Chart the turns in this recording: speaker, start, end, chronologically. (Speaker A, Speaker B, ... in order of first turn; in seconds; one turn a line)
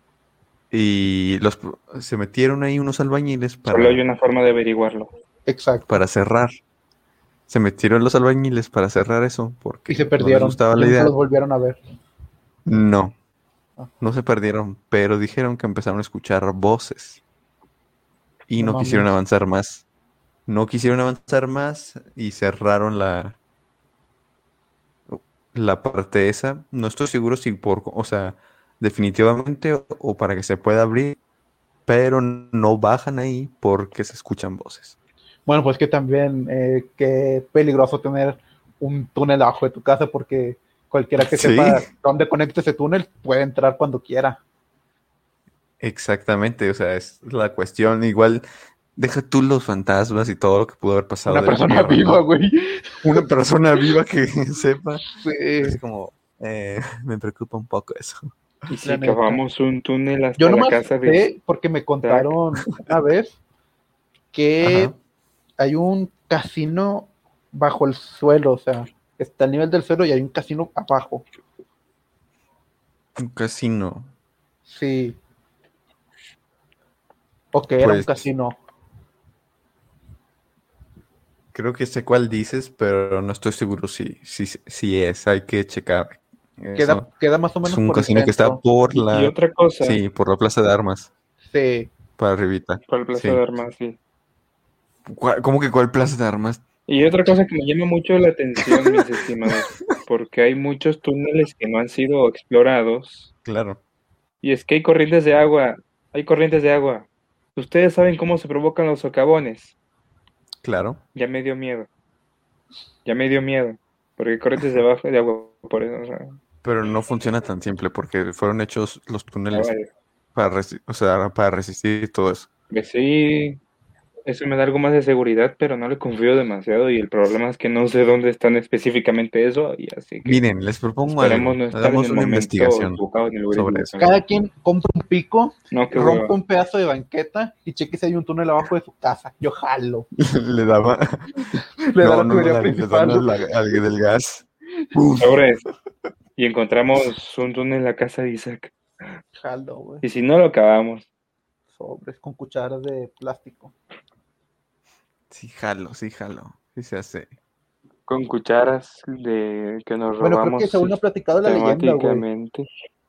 Speaker A: 0.7-4.0
Speaker B: 3.7-5.1
Speaker C: 5.5-6.0
Speaker A: 5.9-6.5
Speaker A: 7.5-11.1
Speaker C: 9.9-11.8
Speaker A: 12.7-13.2
Speaker A: 14.0-17.2
Speaker A: 18.5-19.9
Speaker C: 18.6-19.1
Speaker A: 20.5-23.4
Speaker A: 25.1-31.2
Speaker A: 31.9-35.0
Speaker C: 35.5-44.4
Speaker A: 41.2-41.9
Speaker A: 45.8-48.4
Speaker A: 49.0-52.2
Speaker C: 51.3-53.2
Speaker A: 53.0-55.0
Speaker C: 55.1-55.8
Speaker A: 55.6-58.3
Speaker B: 58.7-61.3
Speaker C: 58.8-59.4
Speaker C: 60.4-63.4
Speaker B: 62.0-62.3
Speaker C: 64.3-64.9
Speaker A: 64.6-65.0
Speaker C: 65.6-71.2
Speaker A: 73.2-74.1
Speaker C: 74.7-75.2
Speaker C: 77.5-78.6
Speaker A: 77.8-78.3
Speaker A: 81.5-87.1
Speaker C: 86.8-88.6
Speaker A: 87.6-91.1
Speaker B: 89.1-90.0
Speaker C: 91.5-91.9
Speaker A: 92.2-93.4
Speaker B: 92.9-94.0
Speaker A: 95.1-96.6
Speaker B: 96.9-103.3
Speaker A: 103.5-103.8
Speaker B: 104.4-109.7
Speaker A: 110.6-111.0
Speaker B: 111.2-111.9
Speaker B: 113.0-116.4
Speaker A: 116.6-119.7
Speaker B: 119.5-119.9
Speaker A: 120.3-122.5
Speaker B: 122.7-123.6
Speaker B: 124.3-130.4
Speaker A: 130.2-133.0
Speaker B: 131.1-134.2
Speaker A: 133.5-134.0
Speaker C: 134.0-140.1
Speaker B: 135.7-136.3
Speaker A: 140.2-141.3
Speaker C: 141.5-143.3
Speaker A: 142.0-145.4
Speaker B: 145.2-145.6
Speaker B: 146.4-148.7
Speaker C: 149.4-150.0
Speaker B: 150.0-151.1
Speaker C: 151.7-153.7
Speaker A: 155.3-157.3
Speaker B: 158.1-162.7
Speaker C: 160.2-162.3